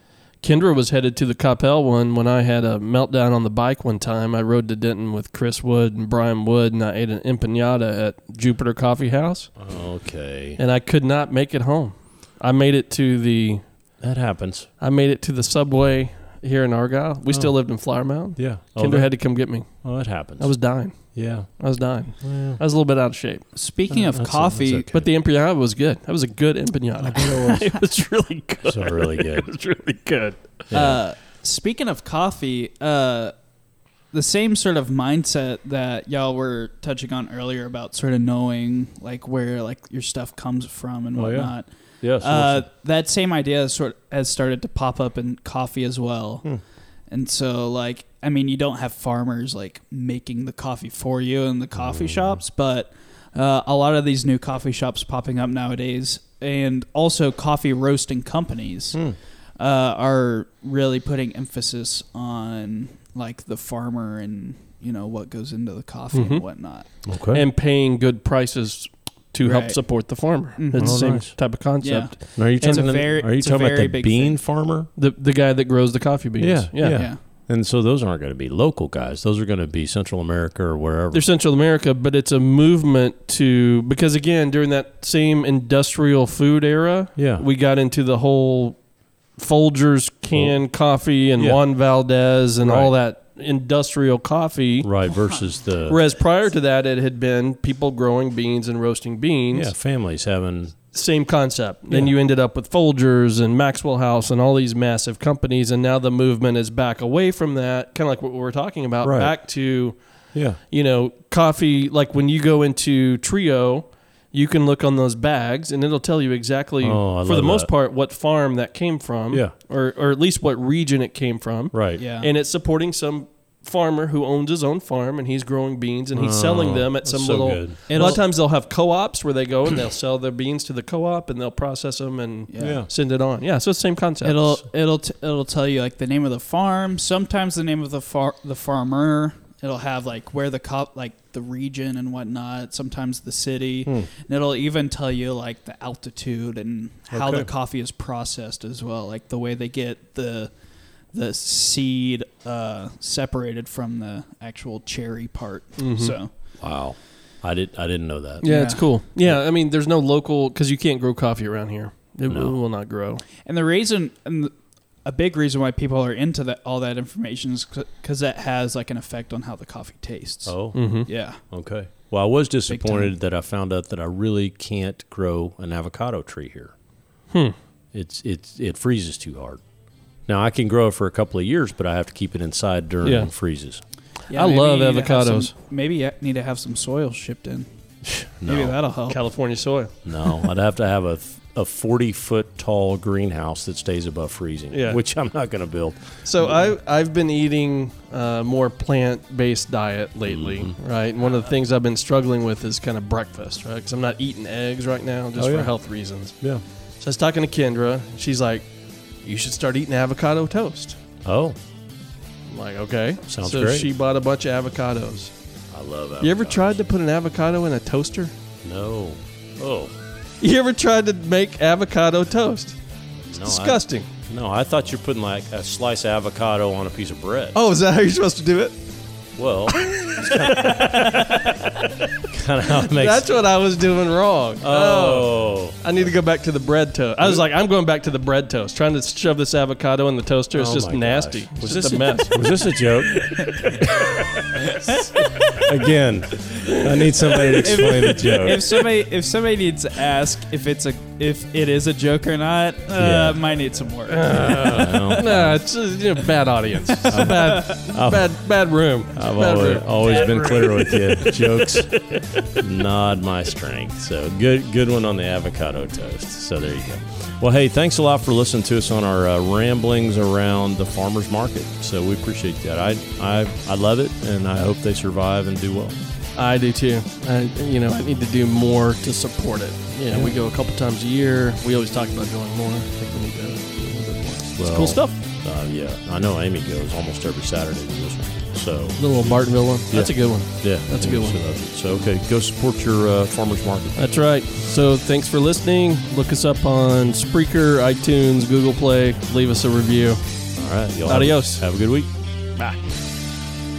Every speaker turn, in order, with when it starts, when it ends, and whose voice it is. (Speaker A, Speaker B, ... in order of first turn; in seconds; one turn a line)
Speaker A: 0.4-9.5
Speaker B: 9.6-10.6
Speaker A: 10.6-13.6
Speaker B: 14.0-14.7
Speaker A: 14.8-19.9
Speaker B: 17.3-17.6
Speaker B: 18.4-19.1
Speaker B: 19.8-20.6
Speaker A: 20.4-23.5
Speaker B: 21.1-21.5
Speaker B: 22.2-22.6
Speaker C: 23.6-24.9
Speaker B: 24.1-25.1
Speaker A: 24.9-30.7
Speaker C: 27.0-27.8
Speaker B: 28.7-29.5
Speaker B: 30.7-31.0
Speaker C: 30.7-33.3
Speaker C: 34.1-46.5
Speaker B: 41.1-42.7
Speaker C: 47.1-59.0
Speaker B: 51.8-52.4
Speaker C: 59.6-66.9
Speaker A: 66.1-66.4
Speaker B: 67.1-67.5
Speaker A: 67.3-72.1
Speaker C: 69.4-69.8
Speaker C: 70.6-74.4
Speaker B: 70.8-71.3
Speaker B: 72.3-74.9
Speaker A: 75.0-77.0
Speaker B: 76.4-81.2
Speaker C: 76.8-77.2
Speaker A: 81.1-88.8
Speaker B: 87.2-87.5
Speaker A: 89.4-94.9
Speaker B: 92.6-92.9
Speaker B: 94.8-96.0
Speaker A: 95.9-99.7
Speaker B: 99.5-100.8
Speaker A: 100.9-110.0
Speaker B: 109.0-109.4
Speaker B: 110.3-110.6
Speaker A: 110.6-134.5
Speaker B: 116.8-117.7
Speaker B: 121.7-122.0
Speaker C: 122.0-122.3
Speaker B: 126.1-128.2
Speaker C: 127.9-128.2
Speaker C: 132.5-132.8
Speaker B: 132.6-132.9
Speaker C: 134.2-150.5
Speaker B: 147.1-147.5
Speaker C: 151.1-156.3
Speaker A: 155.8-156.2
Speaker B: 156.6-158.5
Speaker A: 158.4-163.2
Speaker C: 158.4-158.9
Speaker B: 162.3-162.6
Speaker C: 163.4-164.5
Speaker C: 165.1-171.4
Speaker B: 170.5-170.8
Speaker A: 170.7-171.1
Speaker B: 171.5-176.7
Speaker C: 172.7-173.1
Speaker B: 177.9-179.6
Speaker B: 180.3-183.8
Speaker A: 183.0-183.3
Speaker C: 184.3-187.7
Speaker A: 184.3-185.5
Speaker B: 188.0-188.8
Speaker C: 188.5-189.2
Speaker A: 189.1-190.3
Speaker B: 190.1-196.7
Speaker A: 194.7-195.0
Speaker A: 196.2-206.4
Speaker B: 200.3-200.8
Speaker B: 205.4-205.7
Speaker A: 207.0-208.7
Speaker A: 209.2-211.0
Speaker B: 211.2-211.6
Speaker A: 212.5-215.3
Speaker B: 213.3-213.9
Speaker B: 215.7-216.8
Speaker A: 216.2-218.3
Speaker B: 218.6-219.9
Speaker A: 220.4-222.8
Speaker B: 223.3-227.6
Speaker A: 223.3-224.1
Speaker A: 227.5-228.8
Speaker B: 229.3-231.1
Speaker A: 229.8-231.8
Speaker B: 232.2-233.3
Speaker A: 232.8-242.4
Speaker B: 234.6-236.1
Speaker B: 240.5-244.8
Speaker C: 243.0-245.5
Speaker B: 245.5-248.8
Speaker C: 247.5-255.4
Speaker B: 253.0-253.4
Speaker A: 254.1-262.6
Speaker B: 254.7-255.5
Speaker C: 257.0-257.8
Speaker B: 257.1-258.3
Speaker B: 259.1-261.9
Speaker B: 262.6-276.0
Speaker A: 276.4-285.2
Speaker B: 280.1-280.4
Speaker B: 284.6-294.0
Speaker A: 289.0-291.4
Speaker A: 294.0-300.2
Speaker B: 300.6-302.1
Speaker A: 301.1-301.6